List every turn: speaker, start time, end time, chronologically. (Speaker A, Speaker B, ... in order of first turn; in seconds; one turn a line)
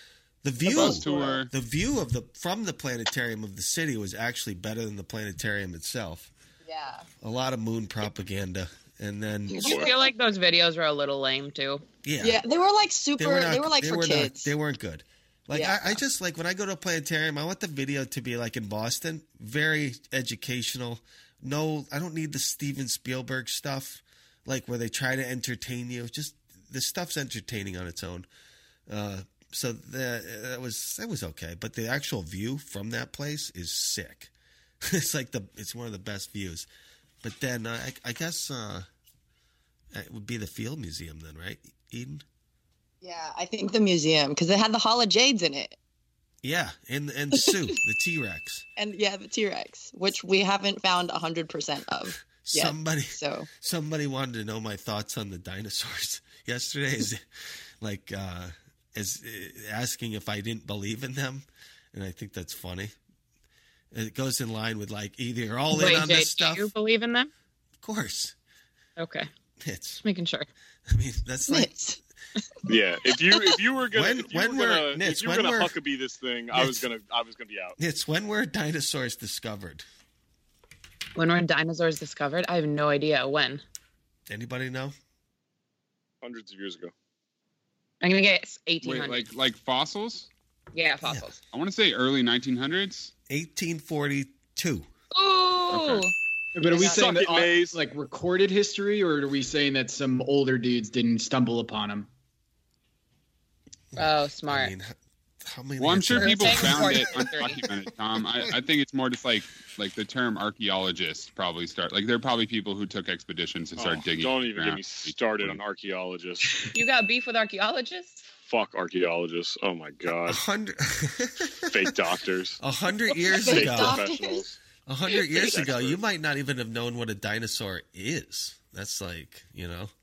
Speaker A: 0.4-6.3
Speaker B: 0.7-1.5
Speaker C: 6.6-7.1
Speaker A: 7.2-9.8
Speaker C: 9.5-9.9
Speaker D: 9.6-11.8
Speaker A: 12.0-12.4
Speaker C: 12.2-14.5
Speaker A: 13.2-28.3
Speaker C: 15.5-16.0
Speaker A: 28.9-34.3
Speaker A: 34.8-36.7
Speaker A: 37.2-38.9
Speaker A: 39.9-42.2
Speaker C: 43.0-45.8
Speaker A: 46.4-48.7
Speaker C: 47.3-47.7
Speaker C: 48.8-53.5
Speaker A: 52.2-57.2
Speaker A: 57.8-62.9
Speaker A: 63.9-66.7
Speaker D: 65.7-67.3
Speaker A: 67.8-68.3
Speaker D: 69.0-69.3
Speaker A: 69.6-70.0
Speaker D: 70.0-70.5
Speaker A: 70.9-71.8
Speaker C: 71.5-72.0
Speaker E: 72.7-77.8
Speaker A: 73.9-75.8
Speaker A: 76.5-76.9
Speaker A: 77.8-79.8
Speaker D: 81.2-83.6
Speaker A: 84.3-85.0
Speaker E: 86.2-86.9
Speaker D: 88.0-89.3
Speaker B: 88.8-90.3
Speaker D: 90.7-91.4
Speaker B: 91.5-93.1
Speaker A: 93.3-94.9
Speaker D: 95.1-96.1
Speaker B: 95.7-96.0
Speaker F: 96.5-102.1
Speaker E: 96.7-97.8
Speaker D: 96.7-97.0
Speaker A: 103.9-107.0
Speaker D: 104.0-104.7
Speaker B: 105.8-115.6
Speaker D: 106.2-107.6
Speaker E: 113.8-116.5
Speaker D: 116.7-118.3
Speaker E: 118.5-120.4
Speaker A: 120.3-121.9
Speaker E: 121.7-122.6
Speaker A: 122.6-124.1
Speaker C: 123.3-124.4
Speaker E: 123.5-124.6
Speaker A: 124.9-129.9
Speaker E: 125.3-126.0